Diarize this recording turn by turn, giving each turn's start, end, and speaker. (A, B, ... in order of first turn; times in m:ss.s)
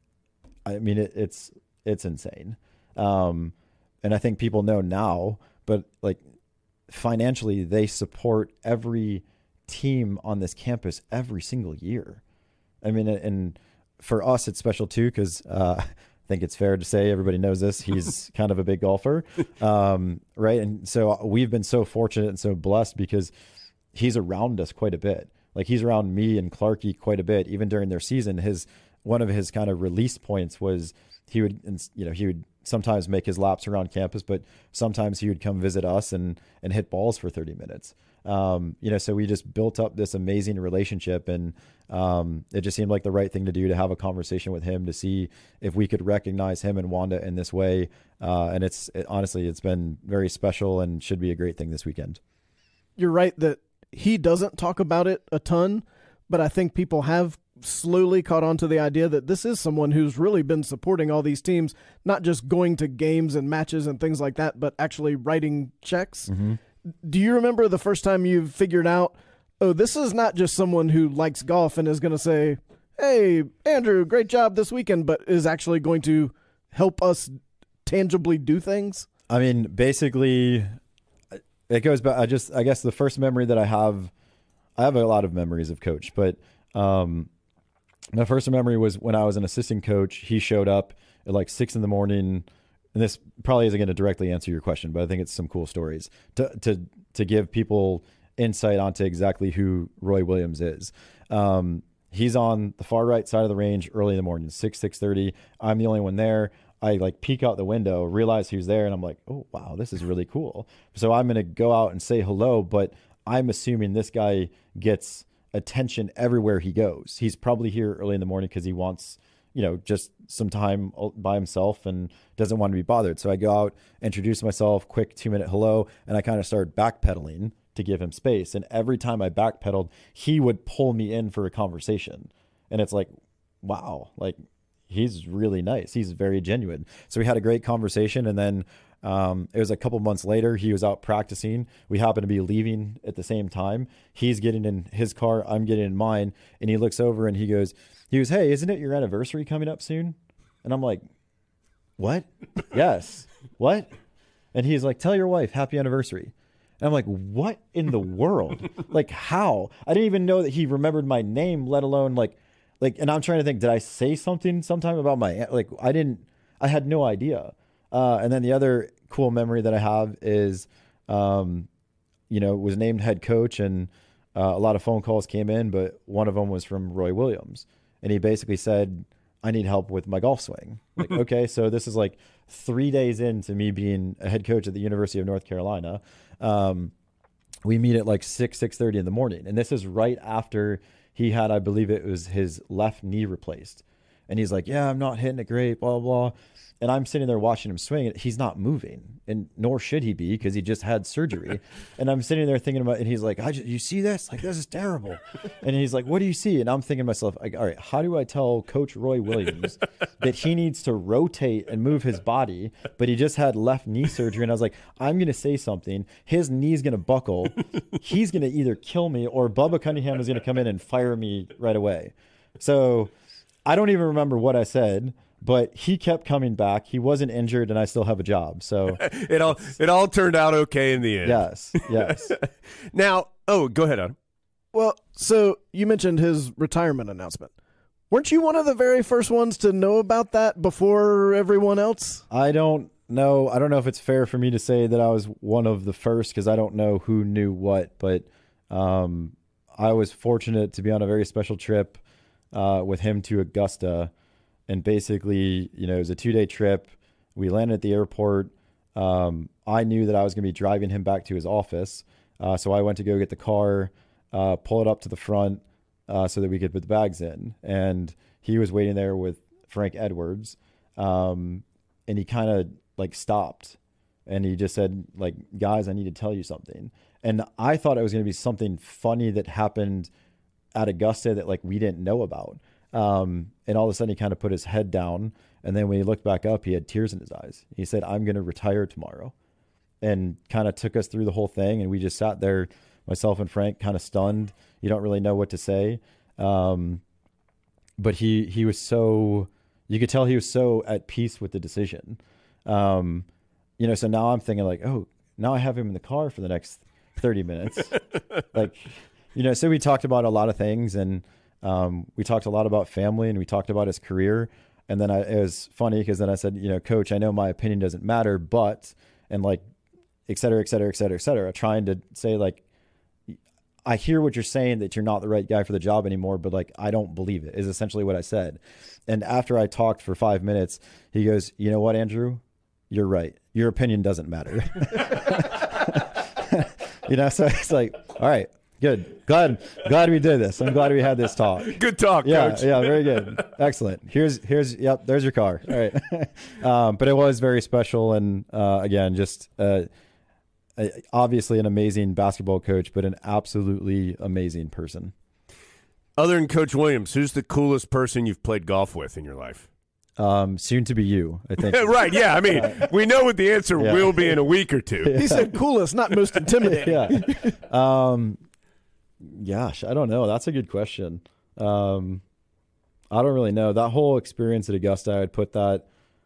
0:00.6-0:06.2 A
0:06.9-0:12.2 A
0:12.8-0:23.3 A
0:23.9-0:52.2 A
0:53.0-1:06.3 B
1:06.3-1:06.6 A
1:07.0-1:19.1 B
1:19.3-1:20.7 A
1:21.7-1:24.1 A
1:24.8-1:27.3 A
1:28.1-2:13.1 A
2:13.6-2:31.0 A
2:32.0-2:33.9 A
2:34.5-2:51.7 A
2:52.3-3:06.9 A
3:07.6-3:43.1 A
3:43.6-3:49.0 A
3:49.0-3:54.1 C
3:51.2-3:52.4 A
3:54.7-3:57.5 B
3:58.1-4:02.2 B
4:02.3-4:12.0 A
4:12.5-4:14.1 A
4:14.7-4:40.1 A
4:40.7-4:49.3 A
4:50.0-4:57.0 A
4:58.0-5:03.2 A
5:03.8-5:08.0 A
5:08.5-5:19.6 A
5:20.3-5:22.6 A
5:23.3-5:49.9 A
5:41.7-5:43.4 C
5:50.8-5:55.1 A
5:56.2-5:59.7 C
6:00.2-6:02.9 A
6:01.6-6:05.2 C
6:03.8-6:04.4 A
6:05.0-6:05.5 A
6:05.1-6:07.5 B
6:06.7-6:08.4 A
6:09.2-6:12.2 A
6:13.1-6:15.9 A